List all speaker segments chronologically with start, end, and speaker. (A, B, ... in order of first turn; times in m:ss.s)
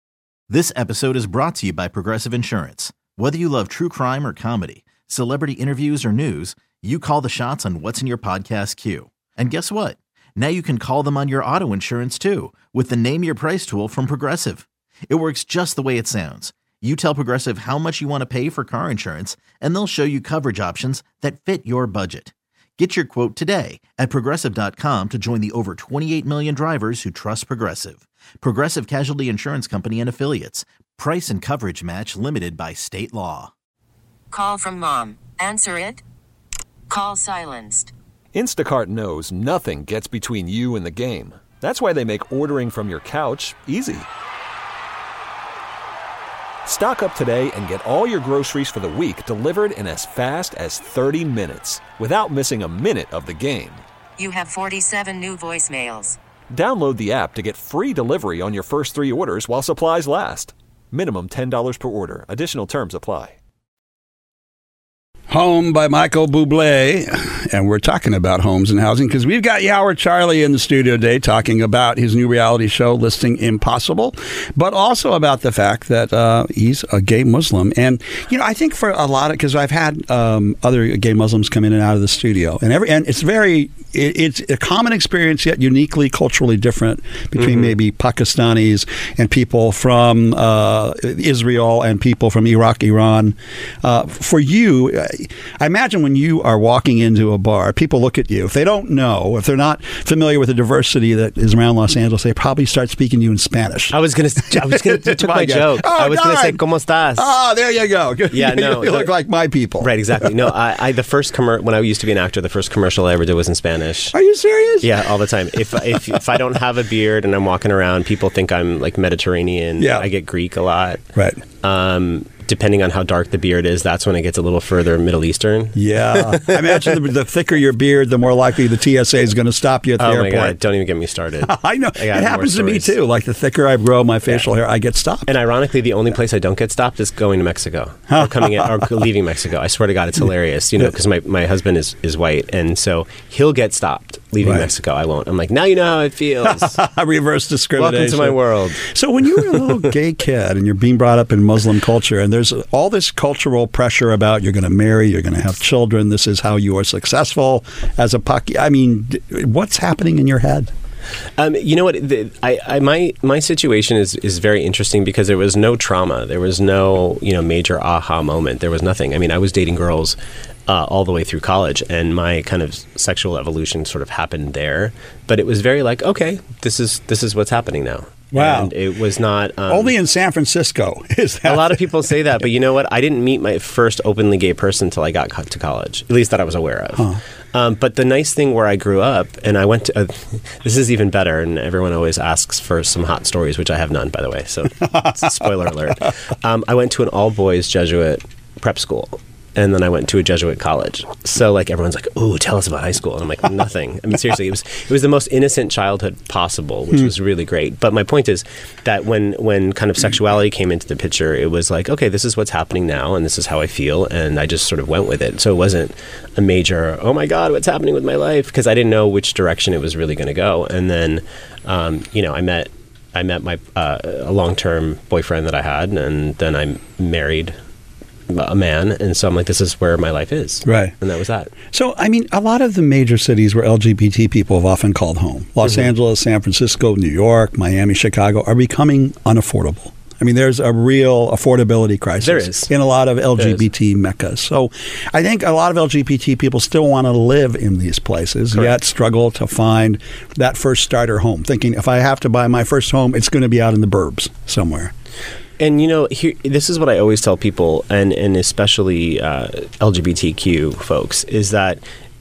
0:00.5-0:33.5 A
0:34.3-0:36.0 B
0:36.9-0:37.9 B
0:38.3-0:44.0 C
0:46.6-0:53.8 C
0:54.2-0:56.2 B
0:56.5-1:03.4 C
1:05.3-1:46.6 D
1:27.4-1:27.7 E
1:43.9-1:47.3 E
1:47.2-1:50.3 D
1:48.3-1:49.1 E
1:49.8-1:54.1 E
1:54.1-1:54.9 D
1:54.8-2:01.0 E
1:55.9-1:56.2 D
1:59.8-2:00.0 D
2:01.2-2:01.4 D
2:01.5-2:07.0 E
2:05.7-2:10.6 D
2:10.0-2:12.9 E
2:11.4-2:15.3 D
2:15.2-2:26.8 E
2:18.1-2:18.9 D
2:24.4-2:24.7 D
2:26.4-2:40.7 D
2:27.8-2:28.8 E
2:29.4-2:29.7 E
2:41.4-2:59.9 E
2:58.3-2:58.7 D
2:59.7-3:01.8 D
3:01.4-3:47.6 E
3:14.8-3:15.7 D
3:48.3-3:51.5 E
3:50.6-3:50.9 D
3:51.7-4:14.9 D
4:02.2-4:02.7 E
4:03.4-4:03.6 E
4:15.6-4:21.8 E